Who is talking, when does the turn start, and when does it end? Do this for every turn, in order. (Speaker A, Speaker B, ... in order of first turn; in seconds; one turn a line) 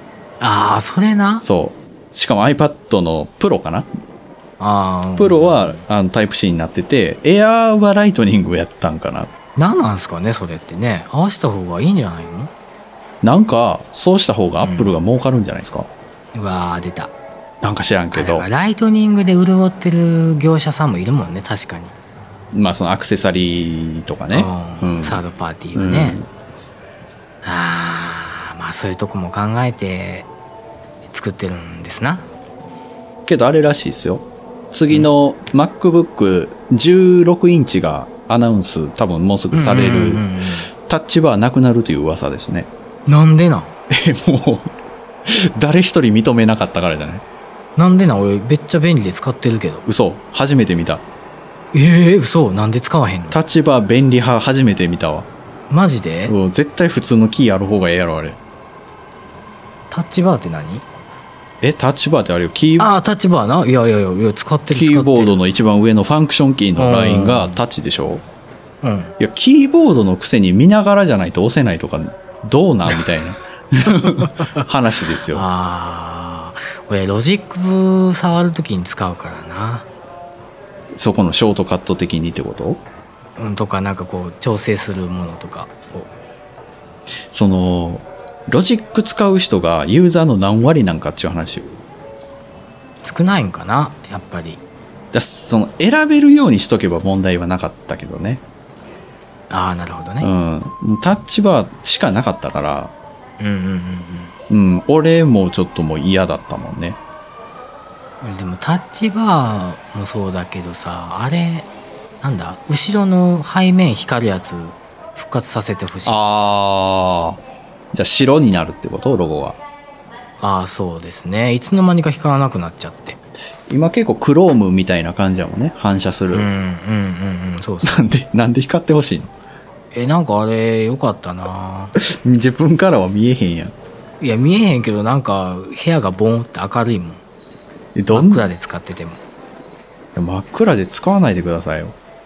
Speaker A: 0.4-1.4
Speaker B: 1.4-3.9
Speaker A: 4.6-5.8
Speaker B: 5.2-9.3
Speaker A: 9.6-12.5
Speaker B: 13.2-15.9
Speaker A: 14.6-14.9
Speaker A: 16.3-17.1
Speaker B: 17.6-18.5
Speaker A: 18.1-21.9
Speaker B: 22.5-25.2
Speaker A: 24.3-26.2
Speaker B: 25.7-26.3
Speaker A: 27.4-30.3
Speaker A: 31.1-32.3
Speaker B: 33.2-42.7
Speaker A: 39.5-40.7
Speaker A: 43.1-43.7
Speaker B: 43.9-44.7
Speaker B: 45.2-47.2
Speaker A: 47.8-49.8
Speaker B: 49.9-51.0
Speaker A: 51.7-53.4
Speaker B: 53.3-55.3
Speaker A: 55.7-56.3
Speaker B: 56.3-58.4
Speaker A: 59.9-60.8
Speaker B: 61.6-62.9
Speaker A: 62.8-65.4
Speaker B: 64.7-68.2
Speaker A: 66.8-67.6
Speaker A: 68.8-69.1
Speaker B: 69.2-75.4
Speaker A: 74.2-74.6
Speaker A: 75.3-79.8
Speaker B: 80.9-82.8
Speaker A: 83.4-86.1
Speaker B: 87.3-91.8
Speaker A: 93.0-94.6
Speaker B: 95.1-98.4
Speaker A: 99.5-100.3
Speaker B: 100.2-102.9
Speaker A: 103.4-104.3
Speaker B: 104.5-107.0
Speaker A: 108.2-111.7
Speaker A: 112.2-116.2
Speaker B: 116.0-117.4
Speaker B: 117.9-119.6
Speaker A: 120.4-123.2
Speaker B: 123.7-126.5
Speaker A: 126.3-128.1
Speaker B: 127.8-129.3
Speaker A: 129.9-131.9
Speaker B: 132.0-133.7
Speaker A: 134.2-137.2
Speaker B: 137.9-138.4
Speaker A: 138.1-139.2
Speaker B: 140.1-141.9